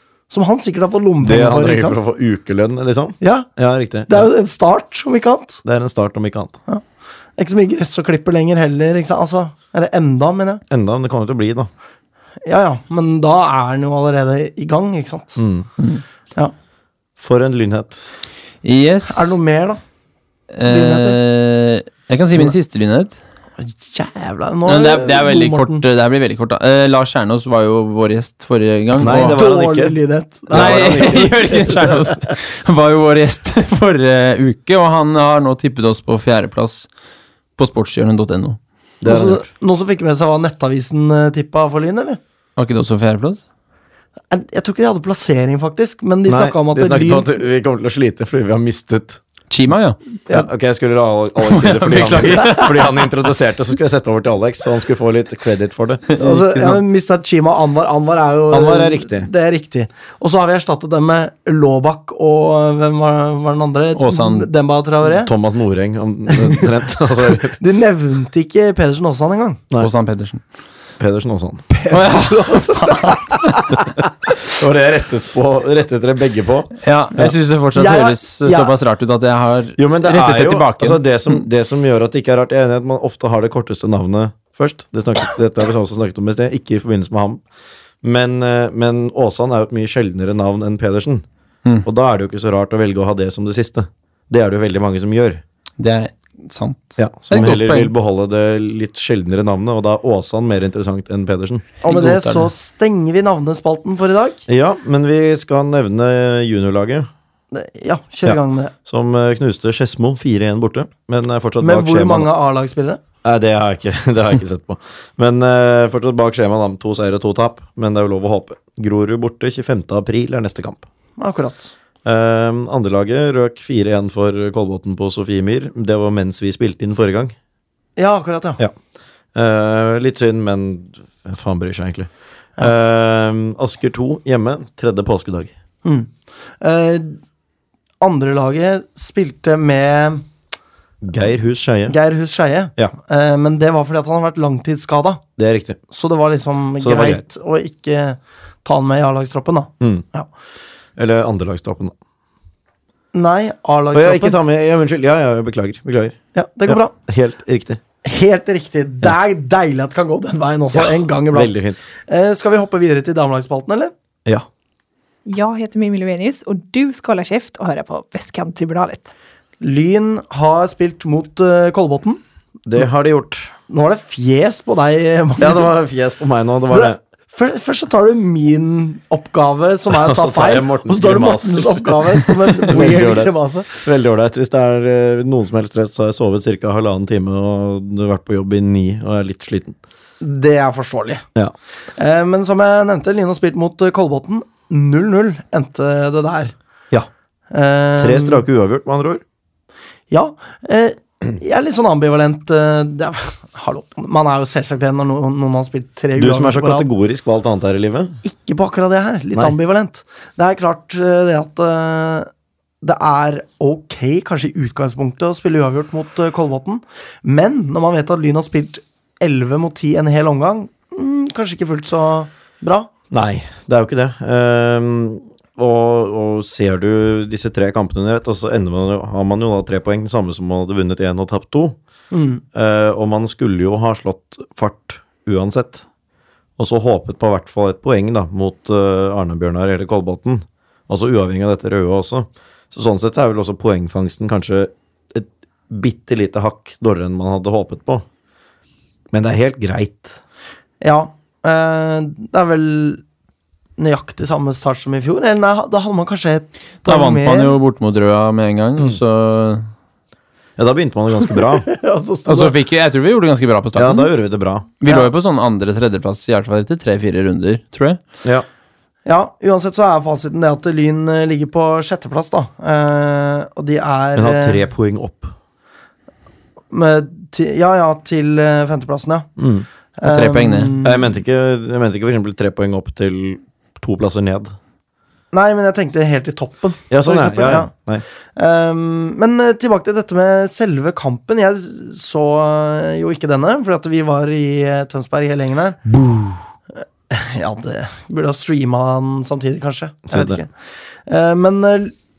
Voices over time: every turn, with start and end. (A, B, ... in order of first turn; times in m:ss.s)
0:00.3-0:02.0 A
0:01.2-0:04.3 B
0:03.2-0:03.5 A
0:04.1-0:05.6 A
0:05.6-0:06.6 B
0:07.4-0:10.6 A
0:10.7-0:11.7 B
0:12.4-0:15.4 A
0:15.4-0:15.7 B
0:17.2-0:18.1 B
0:18.6-0:19.4 C
0:19.1-0:19.8 A
0:20.5-0:23.2 C
0:20.6-0:21.2 A
0:23.6-0:25.8 A
0:24.7-0:29.4 C
0:29.0-0:31.9 B
0:29.1-0:31.6 A
0:30.5-0:36.9 C
0:37.6-0:38.6 C
0:39.0-0:39.4 B
0:39.0-0:42.2 A
0:42.6-0:43.4 C
0:44.3-0:47.3 A
0:46.2-0:49.2 B
0:49.5-0:50.0 C
0:50.3-0:56.2 B
0:51.4-0:53.1 C
0:56.1-0:56.8 C
0:56.2-1:05.3 A
0:58.5-0:59.3 B
1:04.0-1:04.5 C
1:05.0-1:07.6 B
1:06.3-1:06.6 A
1:07.6-1:09.6 A
1:09.8-1:10.4 C
1:11.0-1:11.6 B
1:11.7-1:13.4 A
1:11.9-1:13.3 C
1:14.4-1:17.3 B
1:16.8-1:21.3 C
1:17.7-1:18.7 A
1:19.8-1:27.4 B
1:28.0-1:31.2 B
1:31.8-1:35.4 B
1:35.8-1:37.9 C
1:37.0-1:41.6 B
1:41.8-1:44.4 A
1:41.9-1:42.5 C
1:44.5-1:47.1 B
1:47.5-1:48.7 A
1:48.2-1:52.3 B
1:51.6-1:53.0 A
1:53.2-2:00.9 B
2:01.2-2:01.7 A
2:02.0-2:07.3 B
2:08.0-2:08.6 A
2:09.3-2:15.5 B
2:15.8-2:17.2 A
2:18.0-2:20.2 A
2:21.0-2:22.0 B
2:21.9-2:25.2 A
2:25.4-2:25.8 B
2:25.9-2:30.3 A
2:26.8-2:27.2 B
2:31.0-2:31.9 B
2:33.1-2:34.4 A
2:33.9-2:37.8 B
2:36.3-2:36.9 A
2:38.0-2:43.9 A
2:40.7-2:41.8 B
2:45.2-2:49.1 D
2:49.6-2:52.2 A
2:52.6-2:53.5 B
2:53.7-2:55.7 A
2:55.4-2:57.0 B
2:56.7-3:03.7 A
2:59.9-3:09.8 B
3:10.2-3:11.2 A
3:12.0-3:16.5 A
3:17.5-3:18.4 A
3:18.0-3:19.2 B
3:20.1-3:26.9 A
3:26.2-3:28.1 B
3:28.2-3:32.3 A
3:32.8-3:42.9 A
3:43.1-3:51.8 B
3:52.1-3:52.4 A
3:52.5-3:55.8 B
3:56.6-4:08.0 B
4:09.1-4:10.2 B
4:10.8-4:13.0 A
4:13.8-4:17.6 A
4:16.8-4:19.7 C
4:20.6-4:21.7 B
4:21.5-4:22.5 A
4:22.2-4:24.1 C
4:23.7-4:24.7 B
4:24.8-4:28.0 C
4:29.0-4:34.6 A
4:34.2-4:35.3 B
4:36.7-4:39.3 A
4:39.4-4:39.7 B
4:40.0-4:41.1 A
4:40.0-4:40.7 C
4:40.8-4:44.6 B
4:45.3-4:47.7 A
4:46.9-4:48.0 B
4:48.4-4:55.9 A
4:55.9-4:56.4 B
4:56.8-5:00.5 A
5:00.1-5:00.4 B
5:01.0-5:01.9 A